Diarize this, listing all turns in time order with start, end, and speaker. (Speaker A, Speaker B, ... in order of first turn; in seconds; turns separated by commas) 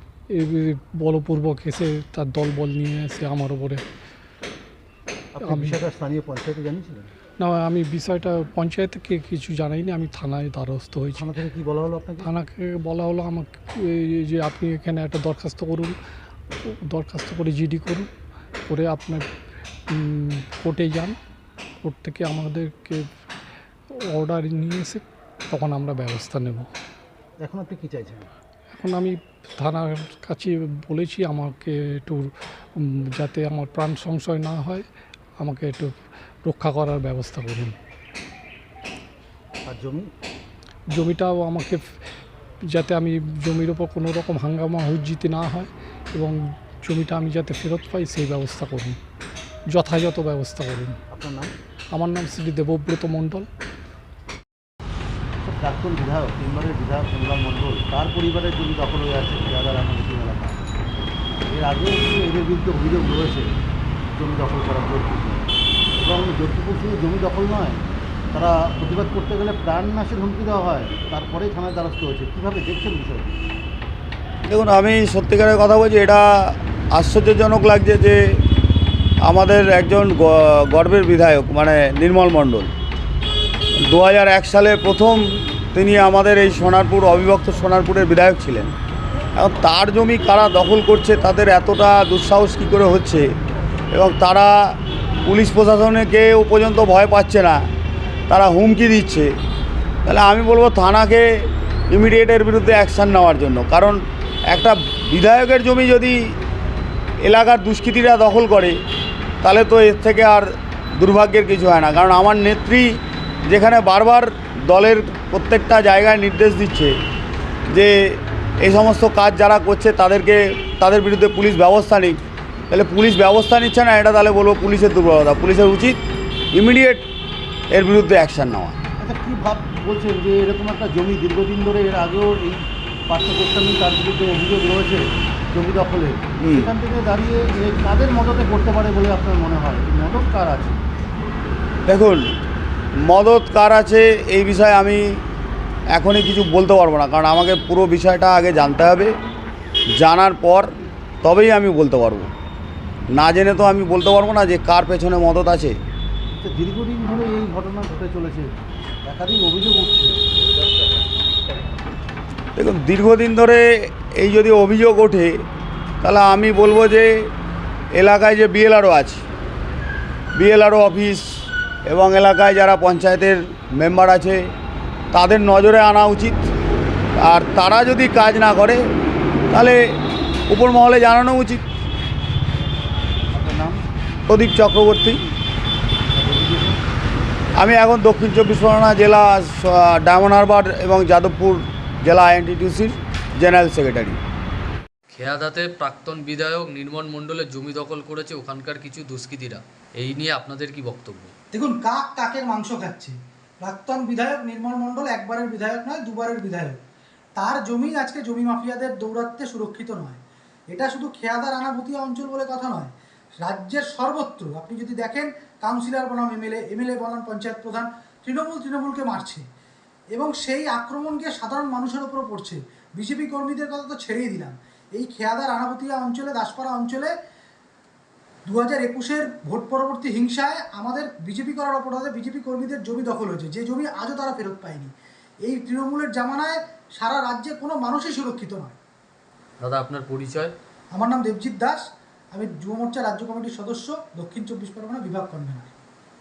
Speaker A: 0.3-3.8, Speaker B: 5.4-7.1, Speaker A: 5.4-5.8, Speaker A: 7.4-11.3, Speaker B: 11.2-12.3, Speaker A: 12.2-15.9, Speaker A: 16.5-18.1, Speaker A: 18.7-19.3, Speaker A: 19.9-21.2, Speaker A: 21.8-23.1, Speaker A: 23.9-26.7, Speaker B: 27.4-28.3, Speaker A: 28.7-34.9, Speaker A: 35.4-37.8, Speaker B: 39.7-40.1, Speaker A: 40.9-41.8, Speaker A: 42.7-49.0, Speaker A: 49.7-51.0, Speaker B: 51.1-51.5, Speaker A: 51.9-53.5, Speaker B: 55.4-60.6, Speaker B: 61.5-63.5, Speaker B: 64.1-73.4, Speaker C: 74.5-78.2, Speaker C: 79.2-82.7, Speaker C: 83.8-88.7, Speaker C: 89.4-93.3, Speaker C: 93.9-97.6, Speaker C: 98.3-99.3, Speaker C: 100.1-106.4, Speaker C: 107.2-108.8, Speaker C: 109.4-116.9, Speaker C: 117.7-126.0, Speaker C: 126.5-127.0, Speaker C: 127.7-128.8, Speaker B: 129.0-140.8, Speaker C: 136.4-136.7, Speaker C: 141.9-142.3, Speaker C: 143.0-145.2, Speaker C: 145.9-149.1, Speaker C: 150.0-150.7, Speaker C: 151.2-152.3, Speaker C: 153.1-155.8, Speaker B: 156.4-160.2, Speaker C: 162.6-165.4, Speaker C: 166.0-167.3, Speaker C: 167.9-169.2, Speaker C: 170.3-174.5, Speaker C: 175.1-176.4, Speaker C: 177.2-178.8, Speaker C: 179.5-180.0, Speaker C: 180.5-181.6, Speaker B: 183.3-183.8, Speaker C: 184.3-185.3, Speaker B: 186.1-186.8, Speaker C: 187.6-194.2, Speaker D: 196.7-201.3, Speaker E: 201.5-206.8, Speaker E: 207.4-210.2, Speaker E: 210.7-219.4, Speaker E: 220.1-227.1, Speaker E: 228.5-234.9, Speaker E: 235.4-238.8, Speaker D: 239.9-240.5, Speaker E: 240.9-245.7